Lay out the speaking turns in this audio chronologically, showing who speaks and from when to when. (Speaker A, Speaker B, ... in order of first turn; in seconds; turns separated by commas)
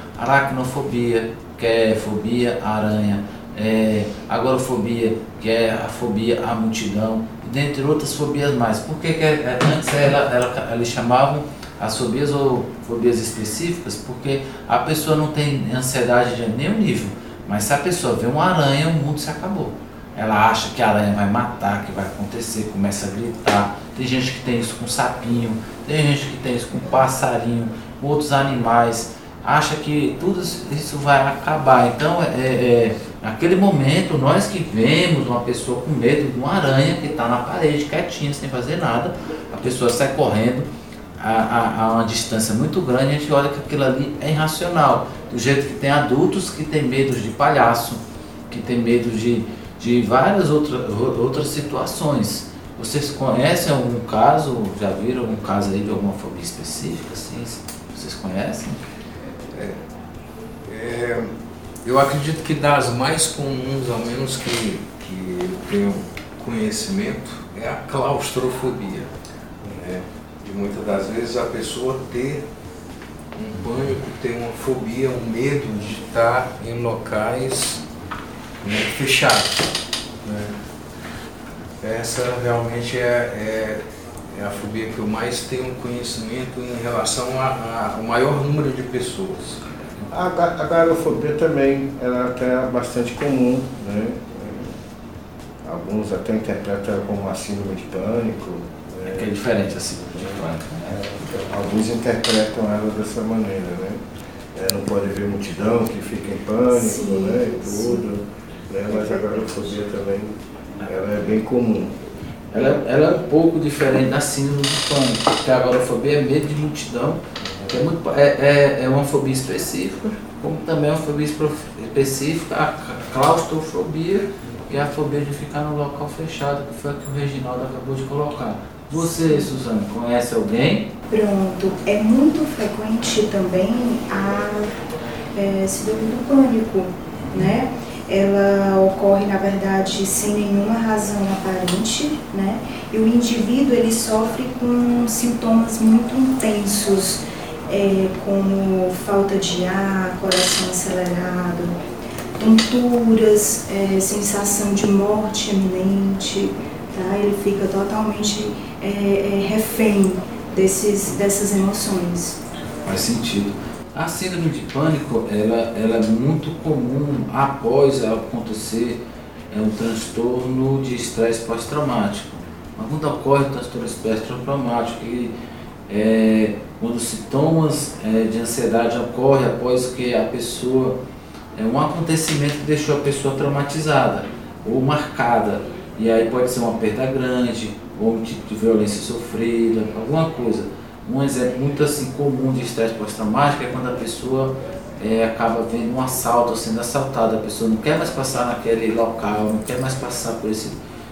Speaker A: 0.2-58.8, Speaker B: 59.5-59.8, Speaker B: 60.7-61.3, Speaker B: 61.8-69.1, Speaker B: 69.7-72.4, Speaker B: 73.4-77.8, Speaker B: 78.6-80.5, Speaker B: 81.8-83.8, Speaker B: 84.3-89.6, Speaker C: 90.1-94.8, Speaker C: 95.6-99.3, Speaker A: 99.0-101.1, Speaker C: 100.2-104.0, Speaker C: 104.5-112.0, Speaker D: 106.7-108.0, Speaker A: 112.5-130.9, Speaker C: 117.5-117.7, Speaker D: 131.1-134.7, Speaker D: 135.3-151.8, Speaker D: 152.4-162.4, Speaker A: 162.8-175.3, Speaker A: 175.9-181.0, Speaker A: 181.6-200.8